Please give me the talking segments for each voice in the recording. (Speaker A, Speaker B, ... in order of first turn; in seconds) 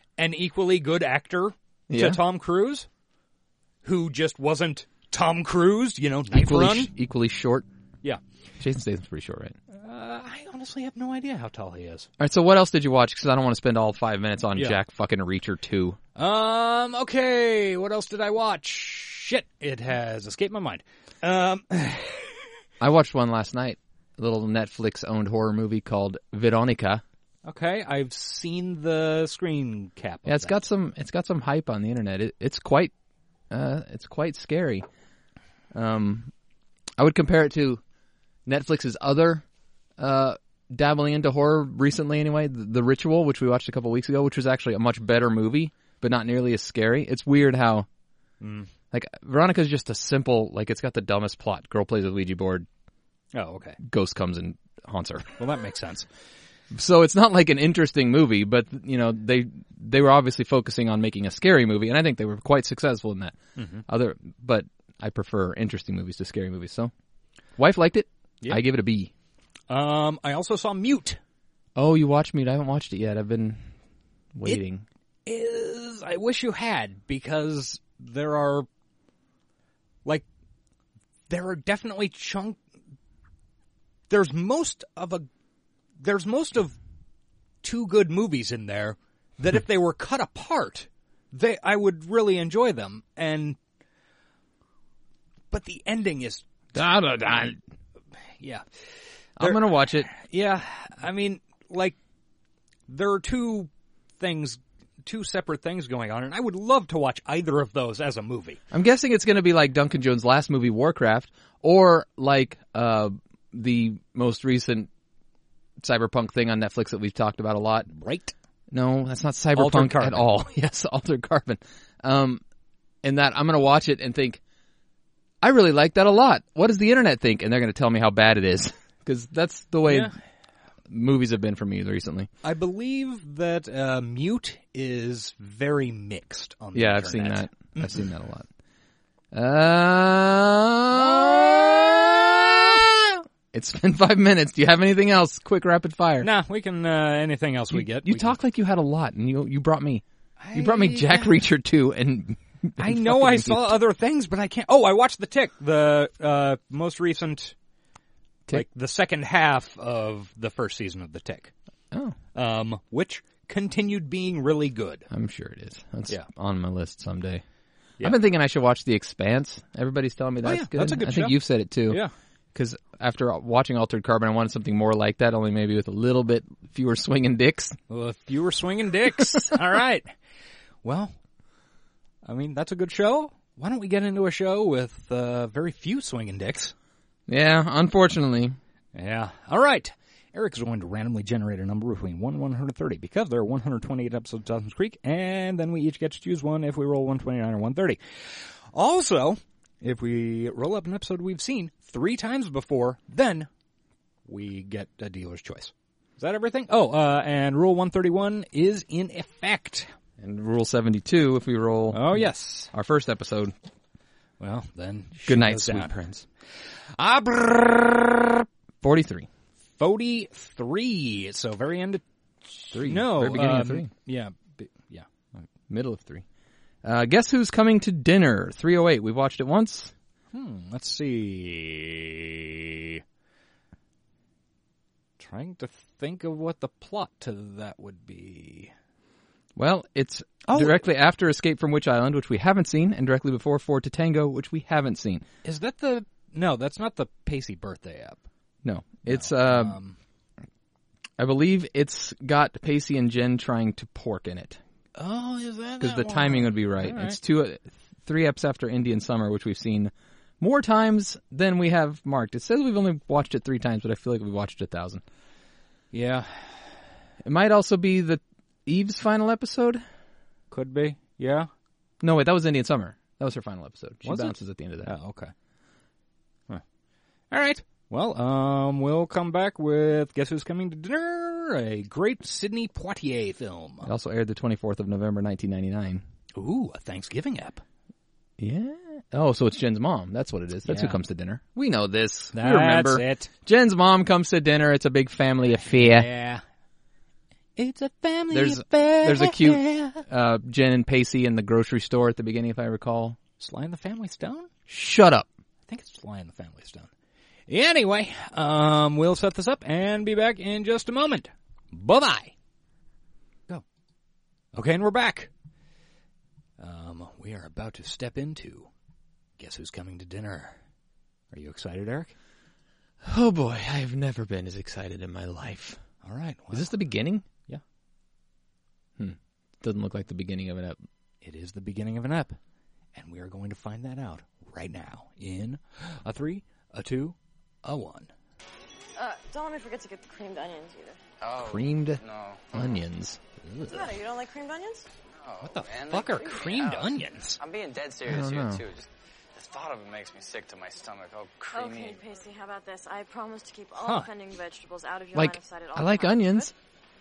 Speaker A: 0.2-2.9, 3.8-6.9, 9.7-12.1, 14.6-14.8, 16.2-22.5, 27.4-30.6, 48.4-48.7, 53.3-53.8, 55.4-56.1, 63.6-63.9, 69.7-71.2, 75.3-78.7, 81.3-82.6, 84.1-85.3, 86.0-86.8, 87.6-93.6, 95.5-96.8, 98.4-98.7, 99.4-102.0, 102.9-108.6, 117.9-118.3, 119.5-120.3, 129.8-130.2, 132.4-138.1, 140.9-143.0, 146.2-148.4, 150.4-151.4, 152.8-157.5, 158.5-161.5, 162.3-165.1, 170.4-172.1, 177.9-180.1, 180.8-181.1, 182.2-186.7, 188.9-203.5, 204.3-209.9, 211.9-212.7, 214.4-215.9, 217.0-218.4, 219.8-225.5, 230.3-233.0, 235.2-238.7, 240.4-240.8, 245.4-248.2, 249.0-250.0, 255.0-257.2, 265.9-266.7, 270.5-271.5, 274.0-275.3, 277.3-283.9, 286.4-287.6, 290.7-291.0, 292.3-293.3, 295.5-296.4, 297.6-300.1, 303.4-304.5, 305.7-306.9, 307.5-312.3, 314.5-315.3, 316.6-318.7, 319.4-320.6, 321.3-322.1, 326.0-326.8, 331.2-332.4, 333.0-338.1, 343.4-343.9, 345.4-347.4, 353.8-354.1
Speaker B: 1.9-2.2, 6.3-7.7, 8.6-9.6, 12.2-16.0, 22.8-27.0, 30.3-32.9, 33.5-34.9, 35.7-36.3, 37.0-37.8, 38.5-39.5, 40.0-47.9, 48.9-52.7, 53.8-55.4, 56.7-66.9, 67.6-69.1, 71.8-73.6, 74.3-74.8, 96.8-97.6, 99.4-100.1, 108.7-114.9, 115.8-117.9, 118.7-122.4, 123.0-124.4, 125.4-130.2, 130.9-132.3, 136.7-138.5, 139.3-142.9, 143.5-146.3, 147.7-153.8, 161.9-162.2, 165.1-167.4, 168.0-172.0, 172.5-177.8, 187.3-188.6, 210.2-213.6, 215.3-216.2, 218.8-219.3, 222.7-223.9, 225.7-226.2, 226.8-229.9, 239.6-245.2, 248.6-249.8, 251.2-254.6, 255.8-265.0, 267.2-269.8, 272.0-274.9, 283.8-286.1, 288.4-296.1, 298.3-303.2, 304.7-305.3, 323.0-325.8, 326.5-327.3, 329.0-330.8, 341.4-342.0, 342.5-343.2, 348.0-348.6, 355.1-356.5
Speaker C: 339.0-341.0, 343.7-344.9, 351.5-356.5
Speaker D: 341.2-342.5, 345.1-352.0